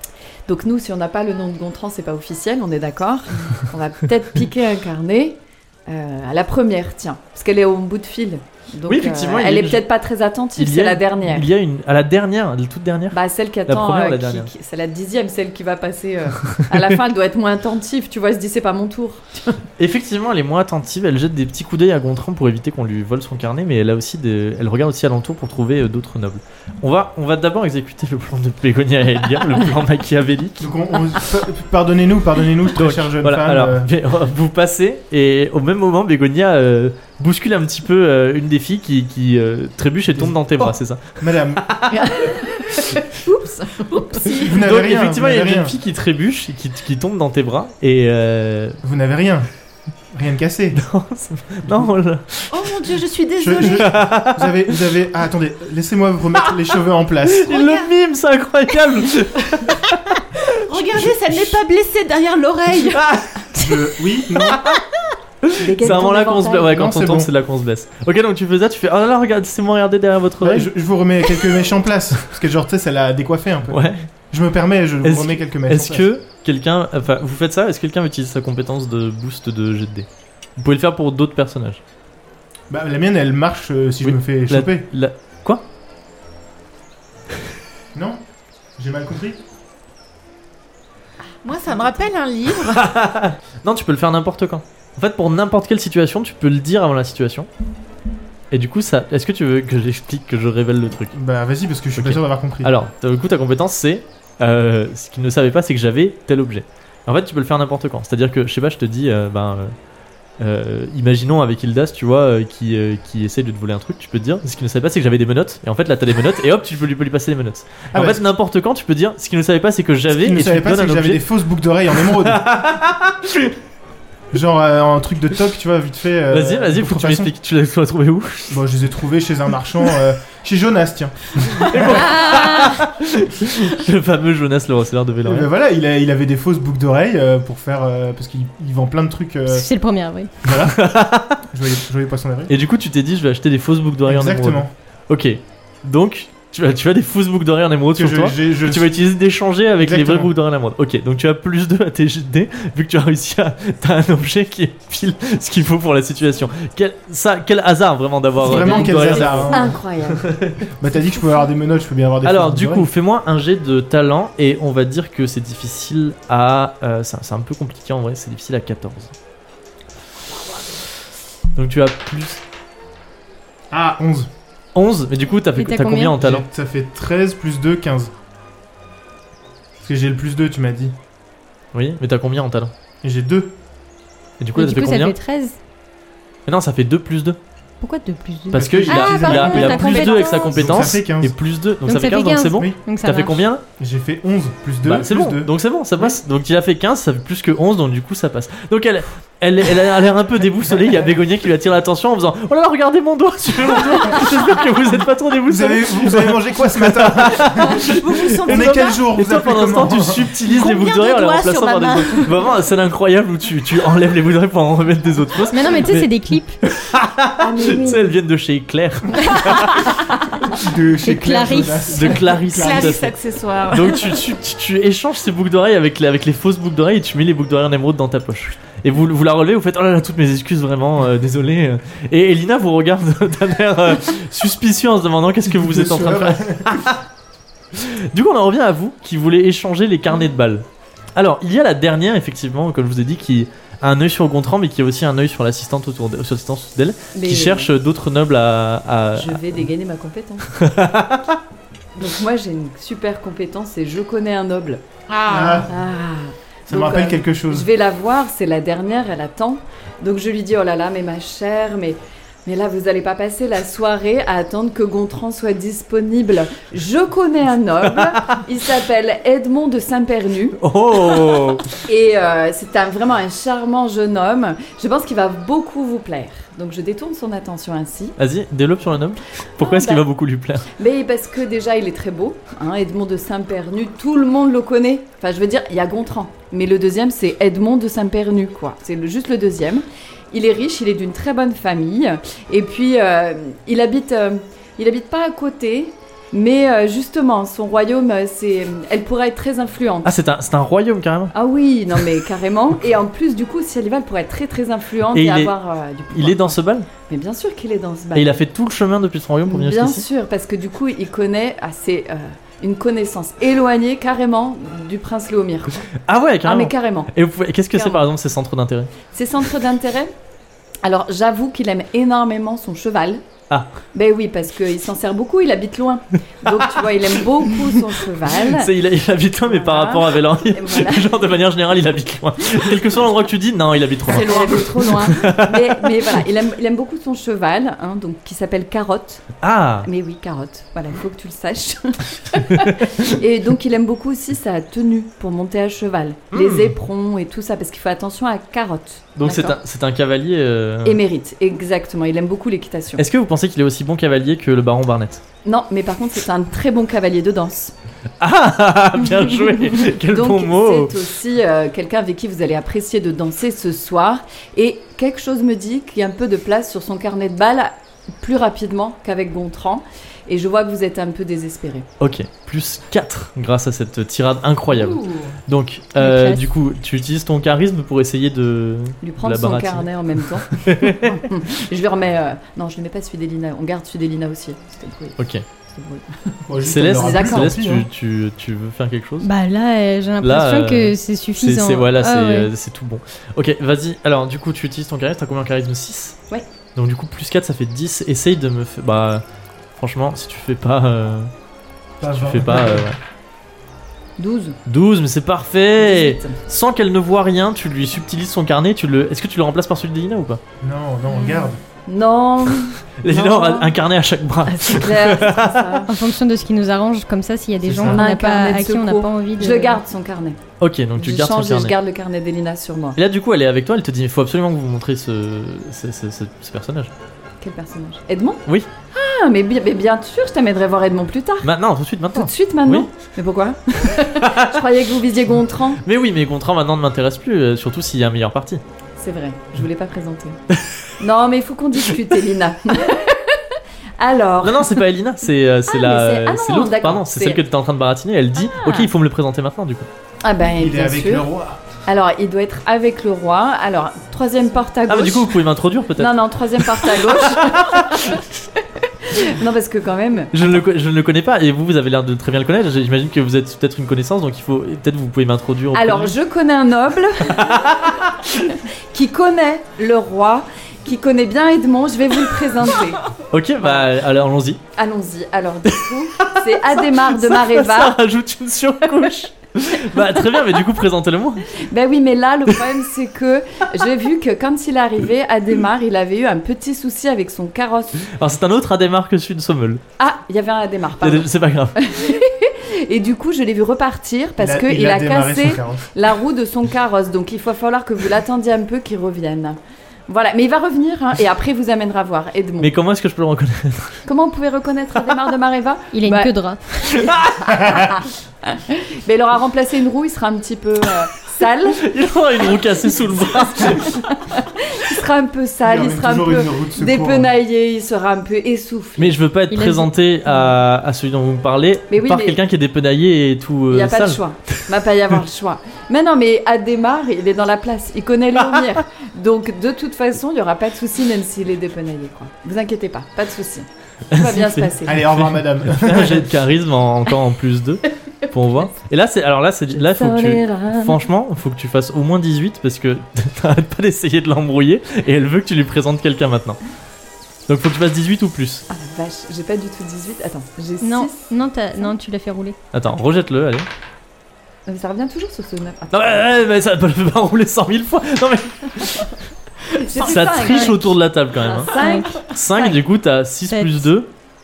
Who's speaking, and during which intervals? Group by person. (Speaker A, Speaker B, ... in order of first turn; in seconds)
Speaker A: 0.5-11.4, 13.1-19.6, 42.0-43.8, 65.6-66.8, 158.4-160.3, 217.4-218.1, 247.1-247.7, 249.1-250.6, 251.9-254.8, 255.4-270.6, 271.9-278.1, 279.6-280.0, 280.7-300.1, 301.3-308.4, 309.4-315.8, 316.4-317.1, 317.7-318.0, 319.1-320.1, 320.8-323.2, 323.9-328.7, 329.4-331.1, 334.1-339.3, 339.8-349.6, 350.8-353.0, 355.4-357.7, 359.8-371.9, 379.0-386.4, 386.9-387.6, 404.2-404.6, 405.8-406.4, 411.9-413.8, 414.5-415.9, 417.8-420.4, 421.0-423.0, 427.4-431.5, 432.1-435.8, 439.0-440.4, 441.0-443.4, 444.0-444.8, 445.7-447.4, 448.5-448.9, 450.2-451.2, 451.8-455.3, 456.0-460.3, 465.7-467.7, 468.9-473.9, 474.8-478.0, 481.6-488.1, 490.0-502.7, 504.1-506.3, 507.1-511.8, 513.3-519.2, 521.9-522.4, 523.7-535.0, 539.7-541.0, 548.7-551.3, 554.6-556.2, 559.7-560.9, 561.4-562.8
Speaker B: 8.9-9.8, 10.6-14.5, 19.8-30.7, 32.7-42.0, 44.3-48.8, 50.7-52.7, 53.7-54.8, 57.2-60.5, 62.9-63.5, 64.5-64.8, 65.4-70.7, 73.7-74.0, 75.0-81.8, 84.0-85.6, 92.7-97.5, 98.5-101.2, 102.0-109.7, 110.4-121.2, 122.0-123.5, 126.3-128.6, 131.4-135.5, 140.6-141.4, 142.5-160.6, 162.2-169.1, 171.5-172.4, 174.7-176.4, 181.7-182.7, 184.4-185.2, 186.4-187.4, 188.5-193.6, 194.8-220.0, 221.9-223.1, 223.7-237.0, 237.7-249.4, 250.5-251.4, 268.0-268.2, 270.6-271.7, 278.2-280.7, 300.0-301.3, 305.1-305.5, 306.1-306.9, 308.1-310.0, 316.1-318.9, 328.3-335.9, 339.4-339.9, 342.6-342.9, 346.3-346.8, 349.1-351.0, 352.9-355.2, 358.2-360.9, 372.0-381.2, 385.2-385.4, 386.6-389.3, 390.2-396.2, 396.7-399.2, 399.8-401.3, 402.0-403.0, 404.6-410.4, 413.0-415.8, 420.6-421.7, 422.9-426.9, 431.4-432.9, 434.1-434.6, 435.8-438.6, 444.4-449.9, 454.9-458.2, 460.3-466.1, 467.3-468.5, 473.3-474.6, 476.2-481.4, 488.1-489.8, 491.0-491.8, 502.6-504.1, 507.0-507.9, 511.7-514.1, 519.0-524.2, 534.1-546.6, 547.5-548.6, 552.7-553.7, 555.9-559.1, 559.7-564.1
Speaker C: 30.6-33.9, 40.1-41.6, 44.4-45.7, 48.8-49.5, 50.1-50.8, 53.4-57.5, 60.8-61.5, 63.5-64.7, 65.8-67.3, 70.4-76.1, 82.7-84.9, 87.9-88.2, 88.8-89.4, 101.1-102.7, 117.9-118.2, 120.1-122.4, 124.3-127.3, 128.5-132.0, 135.2-139.7, 140.4-142.5, 144.0-144.7, 147.9-149.0, 149.8-150.3, 158.4-162.9, 173.7-174.3, 176.2-178.1, 179.8-180.9, 183.0-183.5, 188.5-191.4, 193.8-196.0, 205.5-210.3, 220.5-223.1, 235.5-236.9, 255.3-255.7, 256.7-257.7, 386.5-387.9, 402.0-402.9, 410.6-411.6, 417.6-418.0, 450.4-451.6, 494.4-495.9, 515.6-517.3, 534.9-536.3
Speaker D: 43.3-44.6, 52.5-53.9, 57.5-57.9, 60.5-63.0, 91.4-92.9, 207.8-209.0, 210.4-212.4, 222.5-224.2, 255.1-255.7, 334.1-335.1, 374.7-375.4
Speaker E: 131.9-132.8, 139.5-140.3, 175.6-176.1, 184.6-185.6, 187.8-190.8, 191.8-193.4, 215.5-216.6, 221.0-222.1, 376.0-376.5, 389.2-392.5, 415.9-419.8, 505.9-507.0, 519.5-520.5, 550.8-552.5, 560.5-560.8, 561.7-562.2, 563.5-563.9